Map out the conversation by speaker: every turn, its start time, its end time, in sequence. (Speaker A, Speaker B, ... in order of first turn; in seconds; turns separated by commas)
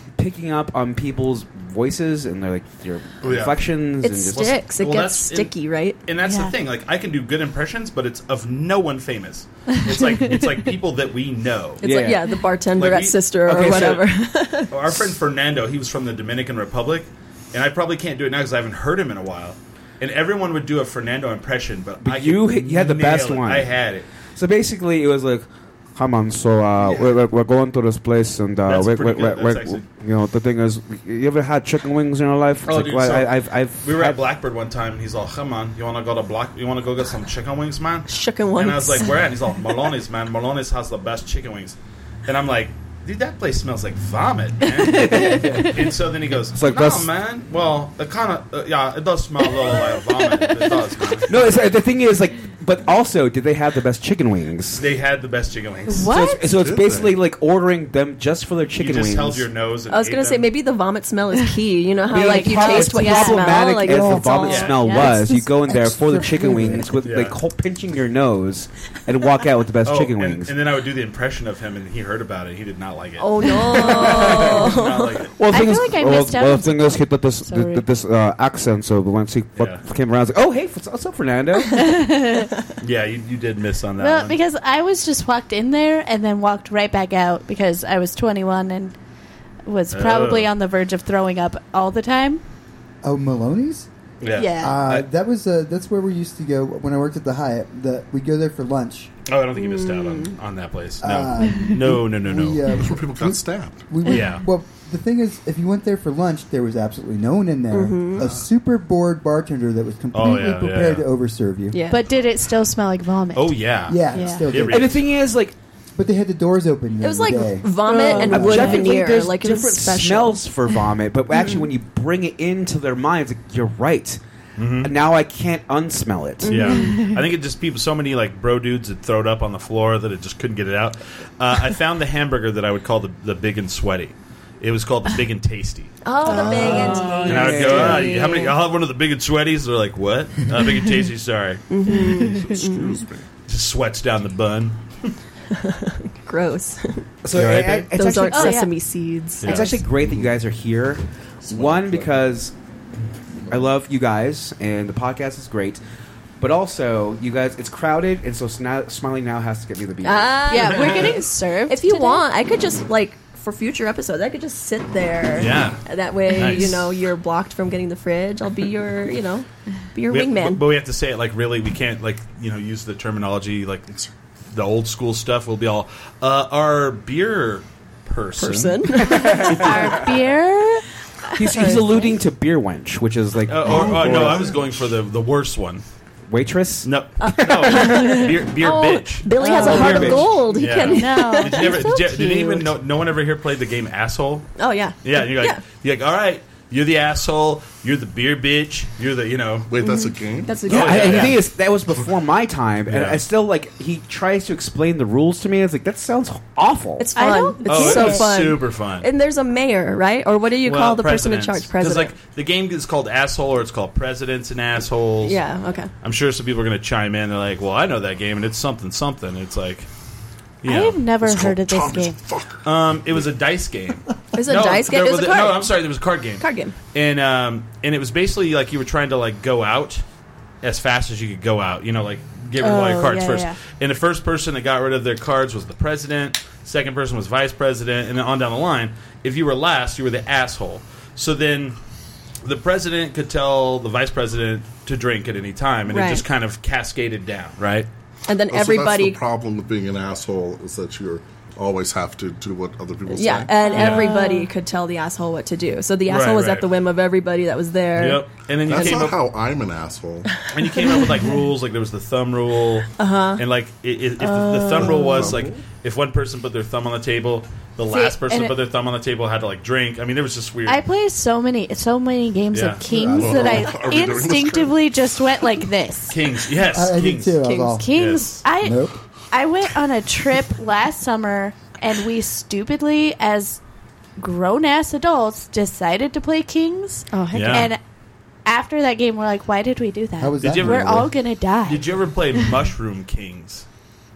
Speaker A: 0.1-4.6, Speaker B: 3.2-3.8, Speaker C: 4.0-6.0, Speaker B: 4.3-5.5, Speaker B: 6.0-11.8, Speaker D: 6.2-6.5, Speaker D: 9.9-10.4, Speaker C: 11.8-14.7, Speaker A: 11.8-12.2, Speaker B: 12.7-14.0, Speaker A: 13.5-14.0, Speaker B: 14.7-24.1, Speaker A: 22.0-23.8, Speaker A: 24.4-34.2, Speaker B: 26.8-27.1, Speaker B: 28.6-29.9, Speaker B: 32.6-51.3, Speaker C: 38.1-39.1, Speaker A: 44.9-45.8, Speaker A: 46.5-47.1, Speaker D: 49.9-50.8, Speaker A: 51.3-54.9, Speaker B: 54.8-56.1, Speaker D: 55.9-56.5, Speaker A: 56.0-59.5, Speaker E: 56.5-57.2, Speaker B: 58.8-60.5, Speaker C: 59.9-64.7, Speaker D: 62.1-63.7, Speaker A: 62.1-70.6, Speaker F: 63.8-64.4, Speaker B: 64.5-64.9, Speaker D: 64.6-65.4, Speaker F: 65.0-66.9, Speaker B: 67.0-67.3, Speaker B: 69.8-75.3, Speaker C: 73.2-75.1, Speaker A: 73.6-74.6, Speaker A: 75.4-82.1, Speaker D: 75.5-77.8, Speaker B: 79.5-79.8, Speaker D: 81.8-82.5, Speaker B: 82.8-84.4, Speaker D: 84.0-88.9, Speaker D: 89.7-92.4, Speaker B: 89.9-90.5, Speaker F: 93.0-93.9, Speaker B: 94.2-95.1, Speaker D: 94.3-94.8, Speaker F: 94.6-99.1, Speaker B: 99.2-102.8, Speaker C: 99.5-100.3, Speaker F: 101.0-111.8, Speaker D: 101.4-101.7, Speaker E: 102.7-103.9, Speaker B: 104.0-104.4, Speaker C: 107.7-108.3, Speaker B: 110.1-111.0, Speaker C: 111.7-112.0, Speaker D: 111.9-114.5, Speaker B: 113.3-115.0, Speaker F: 113.9-115.0, Speaker A: 114.7-115.5, Speaker F: 116.0-118.7, Speaker C: 117.0-120.4, Speaker D: 117.8-118.9, Speaker A: 118.2-124.2, Speaker C: 121.3-121.7, Speaker B: 124.6-124.9, Speaker A: 124.8-126.8, Speaker C: 126.4-127.0, Speaker B: 126.5-141.8, Speaker D: 126.7-127.2, Speaker C: 136.0-138.6, Speaker D: 136.3-137.2, Speaker A: 136.3-138.2, Speaker C: 141.7-142.9, Speaker E: 142.1-143.2, Speaker B: 143.5-145.1, Speaker C: 145.5-147.1, Speaker A: 147.2-148.7, Speaker B: 147.3-147.9, Speaker C: 147.9-149.7, Speaker D: 148.3-148.7, Speaker B: 149.4-149.7, Speaker A: 149.4-152.5, Speaker D: 149.5-149.7, Speaker E: 150.0-150.3, Speaker E: 151.4-152.2, Speaker A: 153.5-155.8, Speaker A: 156.4-160.7, Speaker C: 160.0-170.6, Speaker D: 160.5-162.2, Speaker B: 165.4-166.8, Speaker B: 170.1-173.9, Speaker B: 174.5-179.1, Speaker C: 178.4-179.7, Speaker A: 178.4-180.0, Speaker D: 179.2-180.8, Speaker C: 181.3-182.1, Speaker A: 181.3-184.6, Speaker B: 183.4-185.8, Speaker E: 183.7-184.7, Speaker A: 186.3-187.9, Speaker B: 186.8-199.7, Speaker C: 187.2-191.9, Speaker D: 189.4-190.2, Speaker A: 189.4-190.4, Speaker D: 190.8-192.7, Speaker C: 194.6-195.6, Speaker E: 199.7-201.3, Speaker C: 199.8-201.3, Speaker B: 200.7-201.4, Speaker A: 200.7-207.1, Speaker B: 202.9-203.2, Speaker C: 207.0-212.1, Speaker D: 207.1-208.3, Speaker B: 207.6-209.1, Speaker B: 210.6-215.4, Speaker C: 215.2-215.9, Speaker B: 216.0-219.9, Speaker B: 220.6-221.0, Speaker D: 220.6-222.2, Speaker E: 221.2-222.8, Speaker B: 222.6-230.0, Speaker C: 224.3-225.7, Speaker C: 226.4-226.7, Speaker B: 230.6-241.8, Speaker D: 232.6-233.6, Speaker B: 242.4-247.9, Speaker C: 245.9-246.2, Speaker C: 248.3-249.2, Speaker E: 248.5-253.6, Speaker C: 253.1-258.2, Speaker D: 253.6-254.5, Speaker B: 253.7-254.1, Speaker B: 256.1-256.7, Speaker B: 258.0-259.2, Speaker E: 258.6-260.3, Speaker B: 260.5-270.8, Speaker C: 263.0-263.4, Speaker D: 264.2-265.4, Speaker E: 264.8-265.5, Speaker D: 267.9-268.5, Speaker D: 270.6-276.2, Speaker B: 272.5-272.8, Speaker F: 272.9-273.7, Speaker E: 273.1-275.2, Speaker B: 276.1-277.4, Speaker F: 276.6-277.9, Speaker D: 277.4-283.6, Speaker B: 277.9-278.4, Speaker F: 278.5-279.0, Speaker D: 284.2-287.8, Speaker C: 287.1-287.7, Speaker B: 287.3-287.7, Speaker D: 288.4-291.9, Speaker F: 290.2-291.1, Speaker B: 290.4-291.1, Speaker B: 291.6-293.6